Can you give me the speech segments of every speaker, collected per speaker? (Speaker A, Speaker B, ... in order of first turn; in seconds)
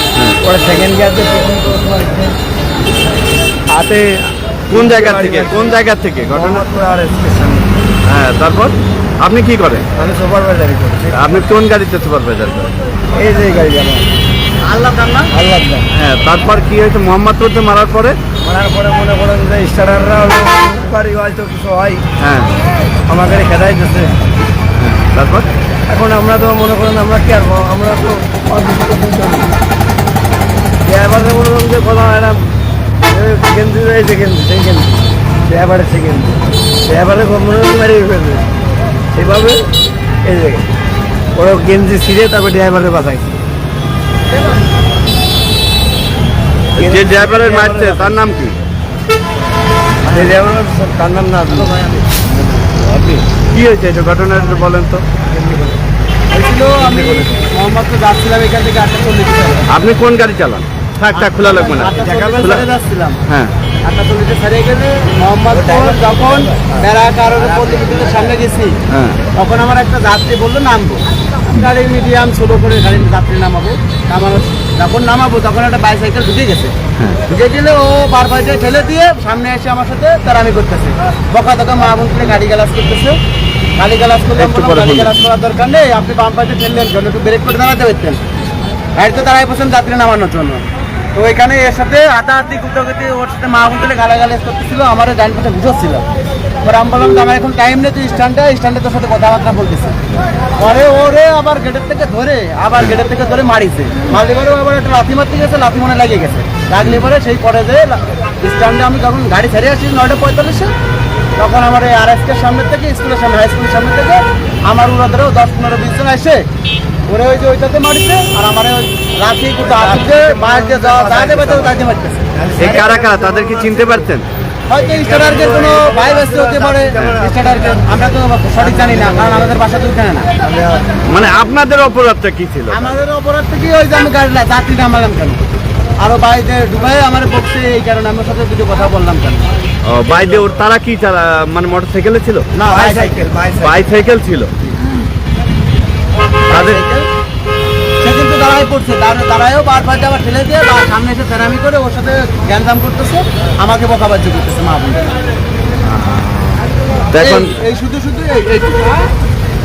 Speaker A: 0.4-2.3, 4.7-5.8, 6.3-7.7, 9.9-11.2, 13.1-14.1, 15.3-15.8, 18.4-22.0, 23.1-24.2, 25.9-29.5, 30.8-32.4, 33.1-38.4, 39.1-39.6, 40.2-40.6, 41.3-43.4, 46.8-48.2, 50.0-52.0, 55.3-55.7, 56.9-57.3, 65.5-66.8, 119.7-121.8, 122.3-124.1, 124.8-129.5, 130.4-131.0, 142.7-143.8
Speaker B: 3.7-4.1, 4.7-6.7, 8.1-9.9, 11.1-12.7, 15.9-18.2, 22.2-22.5, 24.8-25.5, 46.8-48.5, 52.8-55.0, 59.7-62.6, 63.3-63.5, 68.9-69.2, 84.3-85.2, 106.8-107.1, 122.6-124.2, 131.0-133.0, 139.8-142.5, 143.6-144.5, 146.5-146.8, 155.8-157.6
Speaker C: 14.6-15.3, 56.3-59.7, 61.1-63.2, 63.8-68.8, 69.3-76.7, 77.3-83.2, 83.8-88.2, 89.0-90.6, 91.1-96.0, 96.6-100.0, 100.6-110.7, 111.4-116.4, 117.1-122.3, 124.7-130.3, 132.7-135.4, 136.0-139.5, 142.5-143.3, 146.5-147.1, 148.0-155.1, 157.2-159.1